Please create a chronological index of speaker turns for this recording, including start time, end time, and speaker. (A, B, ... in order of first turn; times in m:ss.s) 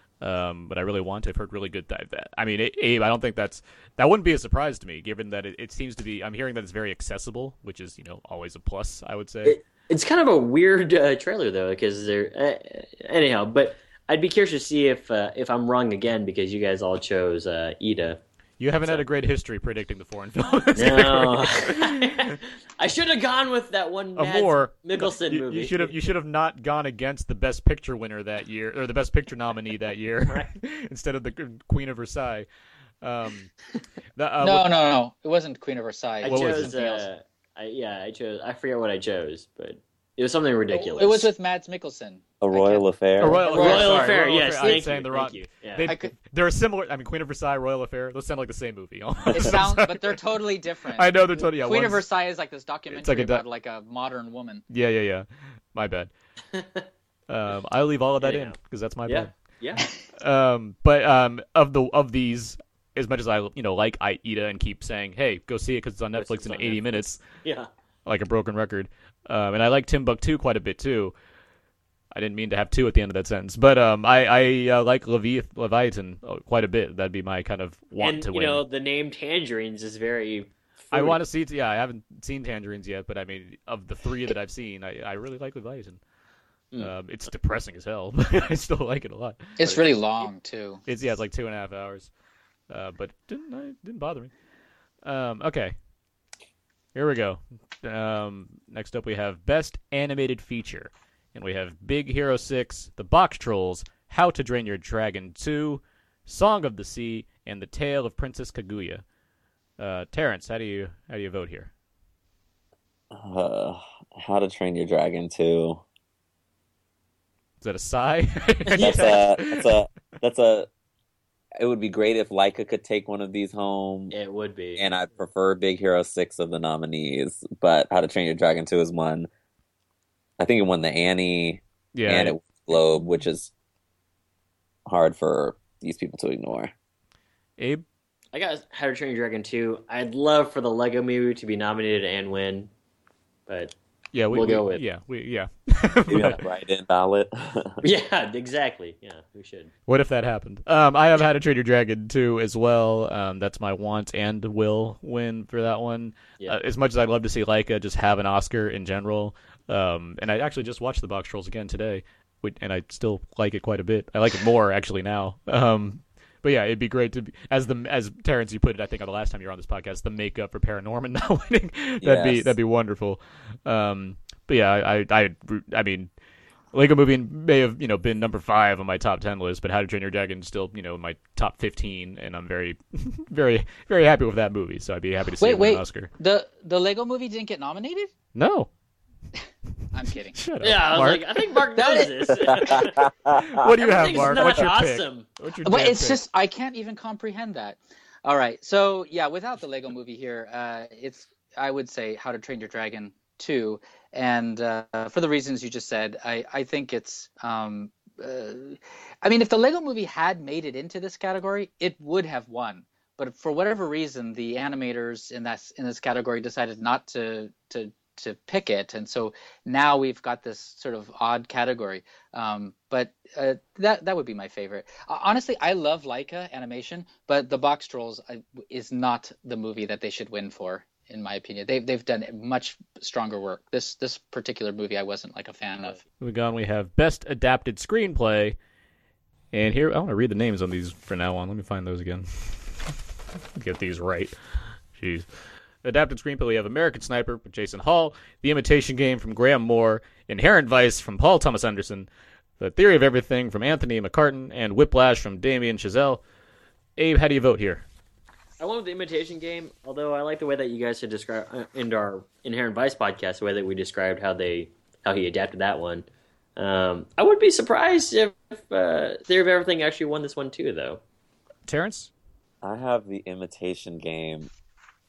0:00.2-0:09.6 A
0:09.4-0:18.2 B
0:18.6-0:22.3 A
0:20.8-0:25.9 B
0:24.2-0:32.5 A
0:30.2-0:30.5 B
0:33.0-0:33.5 A
0:34.2-0:34.7 A
0:34.4-0:37.0 C
0:36.2-0:41.3 B
0:36.2-0:36.8 A
0:40.7-0:44.9 C
0:42.4-0:43.4 D
0:43.2-0:50.2 A
0:43.5-0:45.9 B
0:45.8-0:46.1 C
0:49.3-0:54.6 C
0:51.0-0:52.0 A
0:52.9-0:53.4 A
0:54.7-0:56.1 A
0:56.5-0:56.9 B
0:57.3-0:59.3 A
0:58.2-0:58.5 B
0:59.0-0:59.9 B
1:00.2-1:07.2 A
1:06.2-1:07.7 B
1:08.0-1:11.1 A
1:12.1-1:18.6 A
1:18.0-1:21.2 B
1:20.9-1:26.0 A
1:26.8-1:29.6 A
1:29.6-1:30.8 C
1:30.9-1:32.1 A
1:32.7-1:34.3 A
1:35.0-1:35.7 A
1:36.9-1:49.0 A
1:49.8-1:51.7 A
1:53.1-1:55.8 D
1:57.6-1:59.7 A
1:58.7-1:59.2 B
1:58.8-2:00.7 D
2:01.6-2:04.1 D
2:04.1-2:04.8 B
2:04.8-2:09.3 D
2:10.4-2:13.5 D
2:11.9-2:12.3 A
2:14.8-2:16.7 D
2:17.6-2:17.8 A
2:18.3-2:22.7 B
2:23.5-2:23.7 B
2:24.1-2:26.4 A
2:24.3-2:24.8 B
2:26.1-2:27.8 D
2:27.8-2:29.7 B
2:29.9-2:56.1 A
2:52.0-2:52.5 D
2:56.7-3:06.1 A
3:05.4-3:08.1 C
3:08.3-3:08.7 A
3:09.9-3:10.3 C
3:10.3-3:11.6 A
3:10.6-3:13.1 B
3:11.7-3:12.5 C
3:13.0-3:13.4 D
3:13.3-3:16.2 A
3:13.7-3:15.2 B
3:15.6-3:56.0 C
3:56.2-3:58.6 A
3:59.5-4:03.0 A
4:03.5-4:04.3 A
4:04.9-4:05.3 A
4:05.8-4:12.1 A
4:12.6-4:16.2 A
4:17.0-4:17.8 A
4:18.6-4:26.0 B
4:26.6-4:31.0 B
4:31.7-4:32.1 A
4:32.6-4:34.5 D